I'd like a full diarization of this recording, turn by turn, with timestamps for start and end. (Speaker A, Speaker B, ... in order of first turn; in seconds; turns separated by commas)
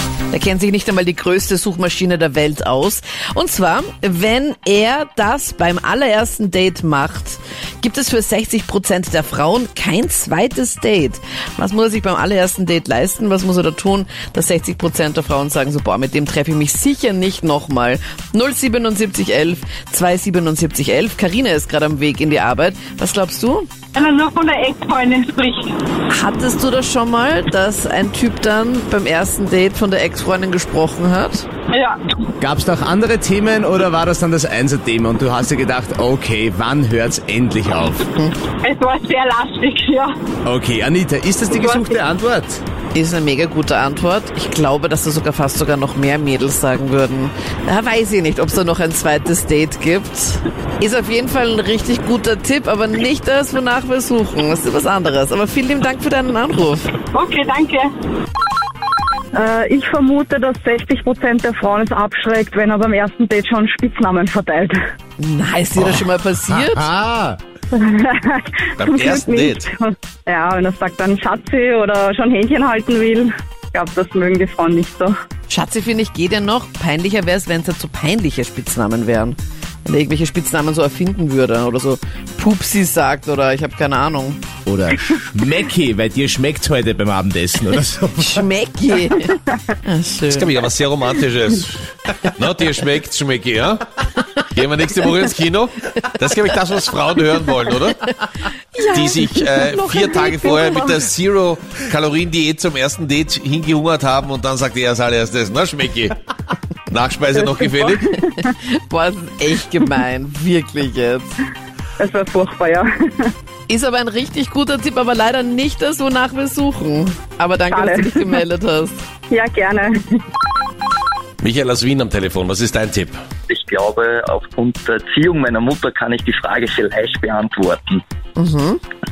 Speaker A: 0.3-23.7, Speaker B: 23.9-25.7, Speaker A: 26.1-31.5, Speaker B: 31.7-32.2, Speaker C: 32.4-38.1, Speaker B: 38.6-40.1, Speaker C: 40.4-42.6, Speaker B: 41.5-42.0, Speaker A: 42.9-56.9, Speaker B: 57.1-57.9, Speaker D: 59.3-64.8, Speaker A: 65.2-66.9, Speaker C: 65.8-67.4, Speaker D: 67.7-75.1, Speaker E: 68.8-69.7, Speaker A: 75.5-84.4, Speaker C: 84.7-88.5, Speaker A: 88.2-90.5, Speaker E: 90.3-93.8, Speaker E: 94.4-98.0, Speaker A: 98.7-100.9, Speaker E: 98.9-106.2, Speaker E: 106.9-108.2, Speaker A: 108.4-111.3, Speaker D: 112.0-113.3, Speaker A: 113.7-119.0, Speaker D: 117.7-118.3, Speaker D: 119.3-120.2, Speaker E: 121.4-123.2, Speaker F: 123.5-128.0, Speaker A: 128.3-128.8